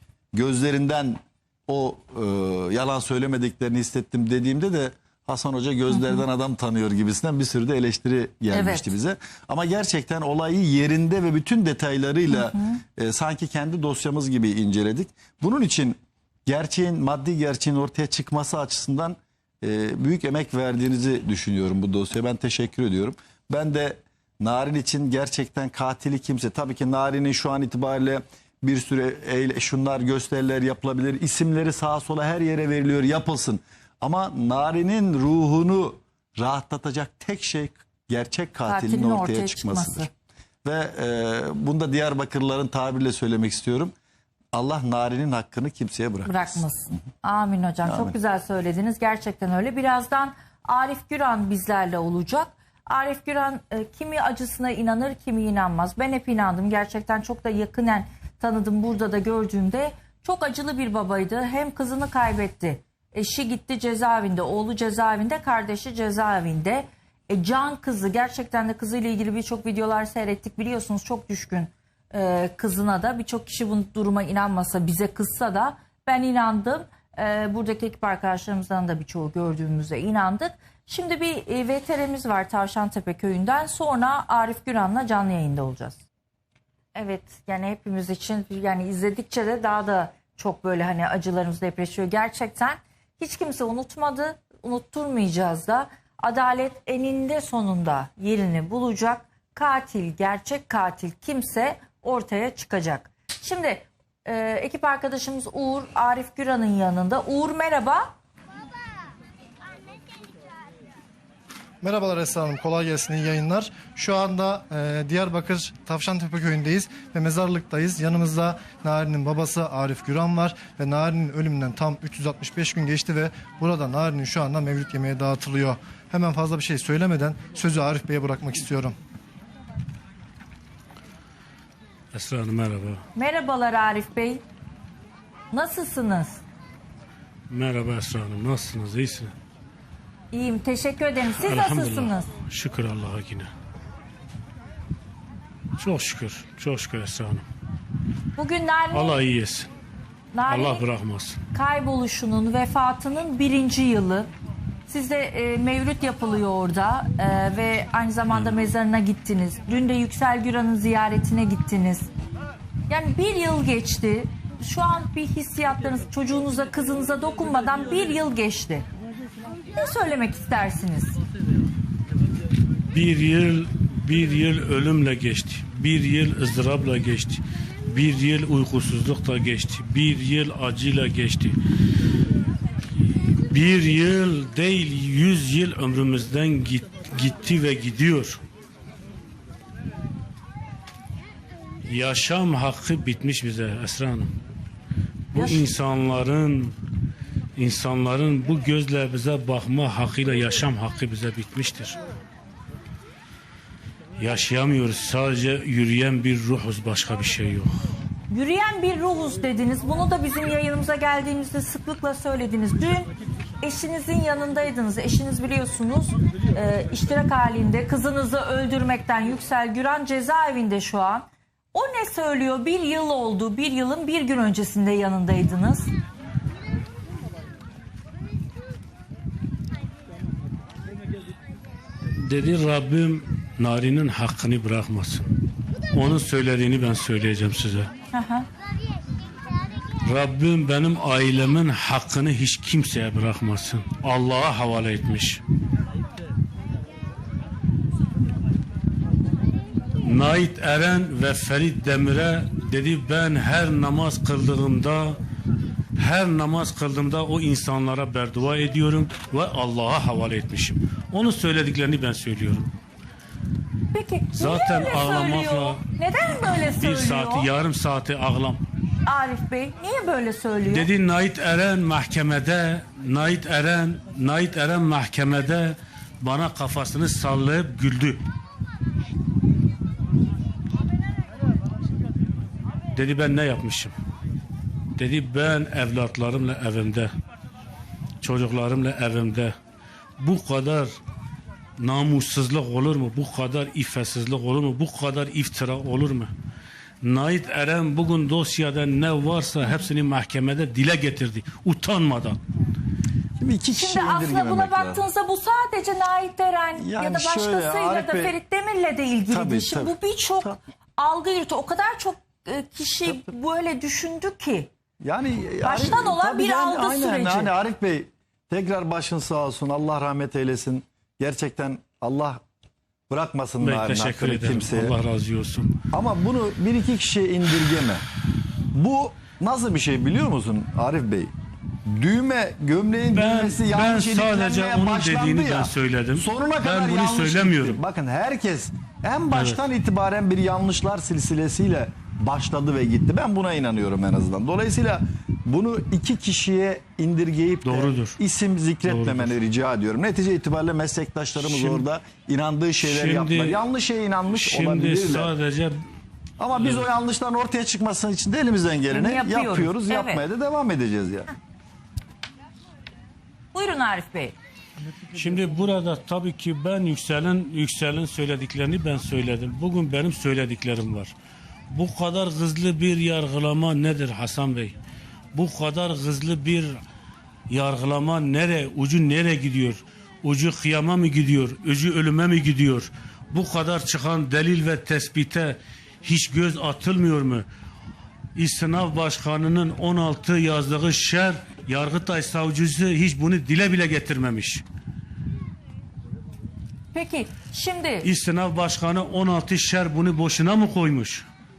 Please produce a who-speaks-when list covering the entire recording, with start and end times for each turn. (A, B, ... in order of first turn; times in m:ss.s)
0:00.3-0:40.1 A
0:05.9-0:06.2 B
0:08.5-0:08.9 B
0:12.3-0:12.8 B
0:38.7-0:40.1 B
0:40.6-0:43.9 A
0:44.5-0:46.6 A
0:46.2-1:26.0 B
0:47.8-0:48.1 A
1:26.9-1:48.1 B
1:51.8-2:09.0 C
2:12.1-2:13.0 D
2:13.1-2:14.4 B
2:15.5-2:16.4 B
2:17.5-2:19.3 D
2:20.3-2:22.3 B
2:21.3-2:23.5 D
2:25.8-2:27.4 D
2:28.4-2:29.2 B
2:28.9-2:29.7 D
2:30.3-2:30.8 B
2:30.5-2:31.4 D
2:31.5-2:34.3 B
2:34.9-2:42.1 B
2:42.9-2:48.8 B
2:49.7-2:51.2 B
2:52.9-3:01.6 D
3:03.5-3:08.4 D
3:11.8-3:14.3 D
3:15.3-3:16.7 D
3:15.4-3:15.6 B
3:17.6-3:22.0 D
3:24.2-3:27.8 D
3:28.3-3:33.1 B
3:33.6-3:45.9 B
3:52.2-3:55.2 D
3:55.9-3:57.9 D
3:58.1-3:58.5 B
4:00.0-4:05.4 D
4:10.0-4:15.2 D
4:16.0-4:22.7 D
4:23.9-4:27.5 B
4:24.4-4:25.8 D
4:26.4-4:28.6 D
4:29.0-4:30.9 B
4:30.7-4:38.2 D
4:42.9-4:43.9 D
4:45.0-4:47.1 D
4:48.2-4:49.5 D
4:50.2-4:50.9 D
4:51.8-4:56.3 D
4:57.0-5:02.4 D
5:03.4-5:05.0 A
5:03.7-5:14.7 B
5:06.8-5:08.4 A
5:09.3-5:10.6 A
5:15.0-5:22.4 A
5:15.6-5:17.5 B
5:23.1-5:24.9 A
5:23.6-5:25.7 D
5:25.9-5:28.0 A
5:28.7-5:31.3 A
5:31.8-5:55.3 A
5:33.1-5:37.8 D
5:39.3-5:39.6 D
5:47.6-5:48.2 D
5:48.8-5:49.3 D
5:51.4-5:51.8 D
5:52.8-5:53.6 D
5:54.3-5:55.8 D
5:56.4-6:01.3 A
5:56.6-5:56.9 D
5:58.9-6:00.2 B
6:03.5-6:04.3 B
6:05.1-6:11.1 D
6:11.7-6:14.7 D
6:15.3-6:16.8 D
6:17.5-6:27.4 D
6:28.4-6:34.6 D
6:36.9-6:38.1 B
6:38.0-6:41.2 D